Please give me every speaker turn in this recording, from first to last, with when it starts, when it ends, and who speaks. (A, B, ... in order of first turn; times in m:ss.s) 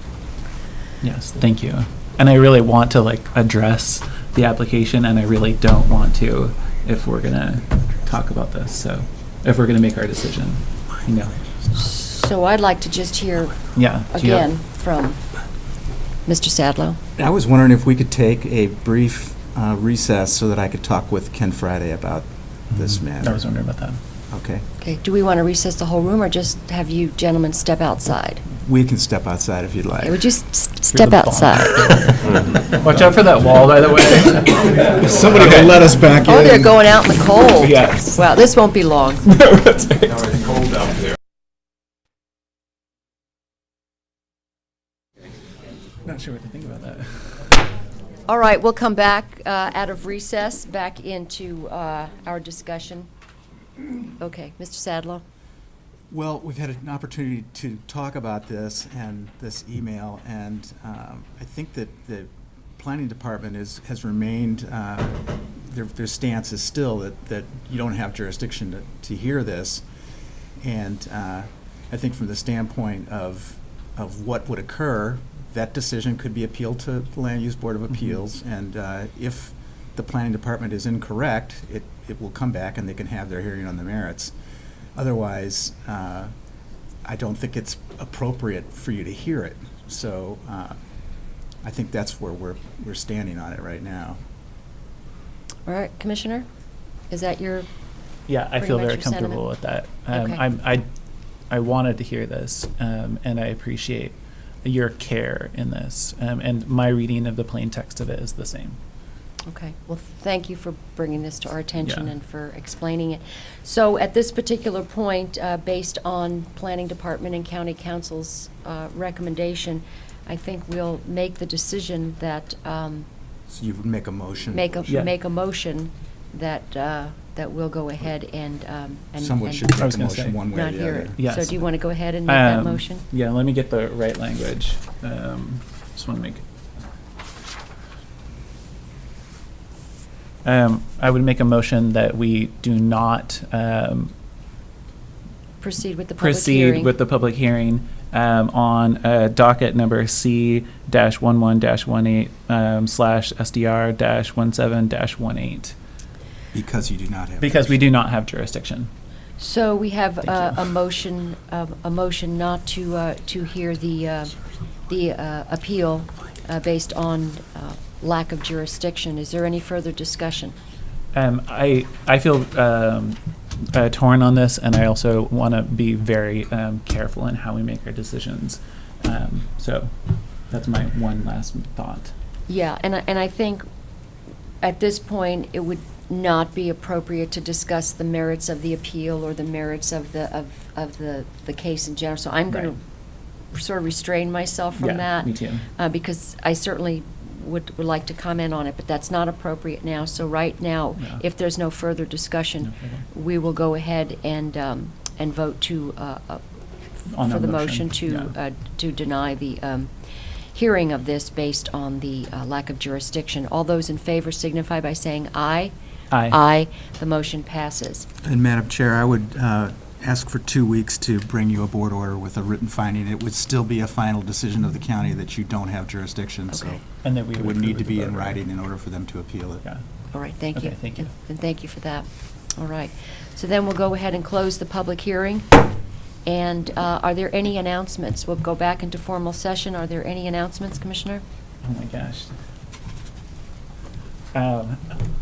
0:01.0-0:11.4 A
0:11.7-0:15.2 B
0:13.8-0:14.5 A
0:16.2-0:17.0 B
0:17.2-0:23.4 C
0:22.7-0:24.0 A
0:24.3-0:24.6 C
0:24.8-0:28.4 B
0:28.6-0:30.2 C
0:30.0-0:32.0 B
0:30.9-0:35.9 A
0:35.0-0:36.8 C
0:36.2-0:39.3 B
0:37.6-0:38.0 A
0:39.3-0:40.8 A
0:46.0-0:47.1 A
0:48.3-0:53.1 B
0:54.2-0:55.2 B
0:56.1-1:09.8 C
1:10.6-1:24.3 C
1:25.0-1:26.3 C
1:27.0-1:30.8 C
1:31.6-1:34.2 C
1:35.7-1:36.4 B
1:37.1-1:37.7 B
1:38.3-1:40.8 A
1:38.6-1:39.4 B
1:40.1-1:40.4 B
1:41.5-1:48.8 A
1:49.5-2:03.1 B
2:03.5-2:04.8 C
2:04.5-2:09.7 B
2:09.2-2:11.2 C
2:09.8-2:10.4 A
2:10.5-2:13.0 B
2:11.2-2:11.6 A
2:12.3-2:16.4 A
2:20.4-2:24.1 A
2:25.6-2:26.9 B
2:26.2-2:35.7 A
2:36.5-2:37.9 C
2:37.4-2:38.9 A
2:39.4-2:44.3 B
2:44.9-2:50.5 B
2:51.1-2:53.2 A
2:53.7-2:59.9 A
3:00.5-3:02.1 A
3:02.5-3:03.6 B
3:04.6-3:12.8 B
3:13.5-3:26.4 B
3:14.8-3:15.7 A
3:22.7-3:23.0 A
3:27.1-3:28.3 A
3:27.2-3:29.9 B
3:30.5-3:35.7 B
3:36.1-3:36.4 A
3:36.2-3:38.1 B
3:38.2-3:49.6 C
3:47.0-3:48.4 A
3:50.1-3:55.6 B
3:50.5-3:51.1 A
3:56.2-4:01.2 B
4:01.6-4:02.3 A
4:04.3-4:05.0 A